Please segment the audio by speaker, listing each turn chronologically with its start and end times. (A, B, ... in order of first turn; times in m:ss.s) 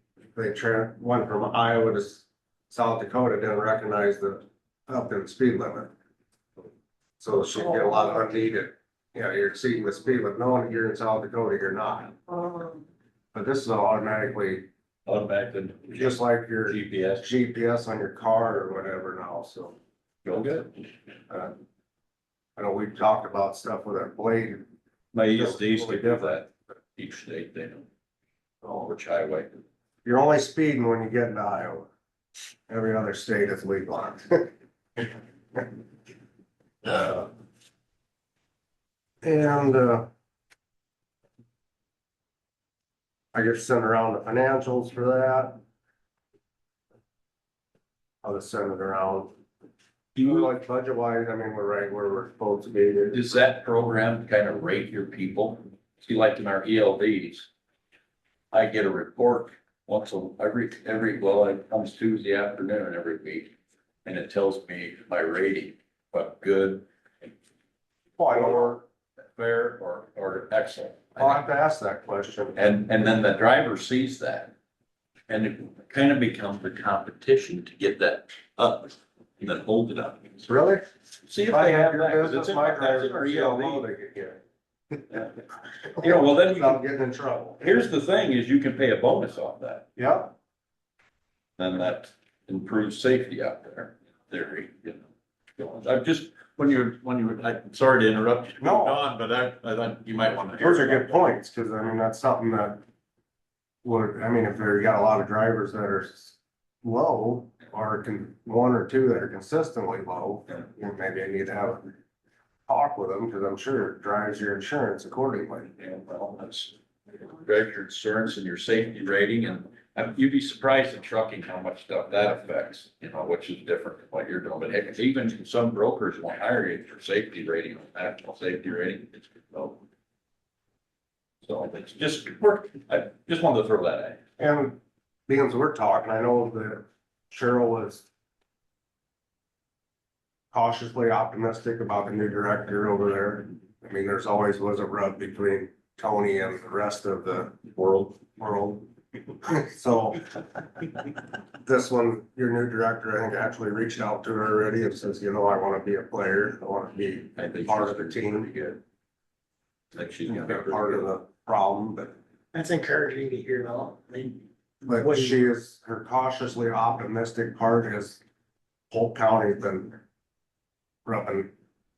0:00.3-0:05.9 A
0:07.2-0:12.1 A
0:13.3-0:14.6 A
0:15.0-0:17.3 B
0:15.9-0:19.8 A
0:20.2-0:20.7 B
0:22.6-0:24.6 A
0:25.1-0:27.9 B
0:25.3-0:26.4 A
0:28.6-0:29.6 B
0:30.0-0:31.9 A
0:32.7-0:35.6 A
0:36.8-0:37.3 A
0:39.2-0:40.1 A
0:43.3-0:45.6 A
0:48.2-0:49.3 A
0:50.2-0:53.2 A
0:50.2-0:50.5 B
0:53.1-0:57.5 B
0:58.5-1:03.5 B
1:04.0-1:06.8 B
1:08.2-1:08.8 A
1:08.3-1:08.8 B
1:09.4-1:11.4 B
1:11.2-1:12.6 A
1:12.6-1:14.5 B
1:15.3-1:20.4 B
1:20.4-1:20.8 A
1:21.2-1:23.8 B
1:21.5-1:24.4 A
1:26.0-1:26.8 B
1:26.0-1:27.8 A
1:27.6-1:29.9 B
1:30.0-1:30.3 A
1:31.6-1:35.0 B
1:35.6-1:41.3 B
1:38.6-1:39.0 A
1:40.6-1:42.8 A
1:43.8-1:51.9 A
1:52.7-1:55.7 A
1:55.8-1:56.7 B
1:57.4-2:09.8 B
2:11.4-2:14.2 B
2:14.4-2:18.1 A
2:20.5-2:30.2 A
2:31.6-2:38.5 A
2:37.4-2:38.8 B
2:39.9-2:41.1 B
2:40.3-2:42.2 A
2:42.5-2:45.5 C
2:44.8-2:48.2 A
2:48.9-2:50.0 A
2:51.0-2:51.5 A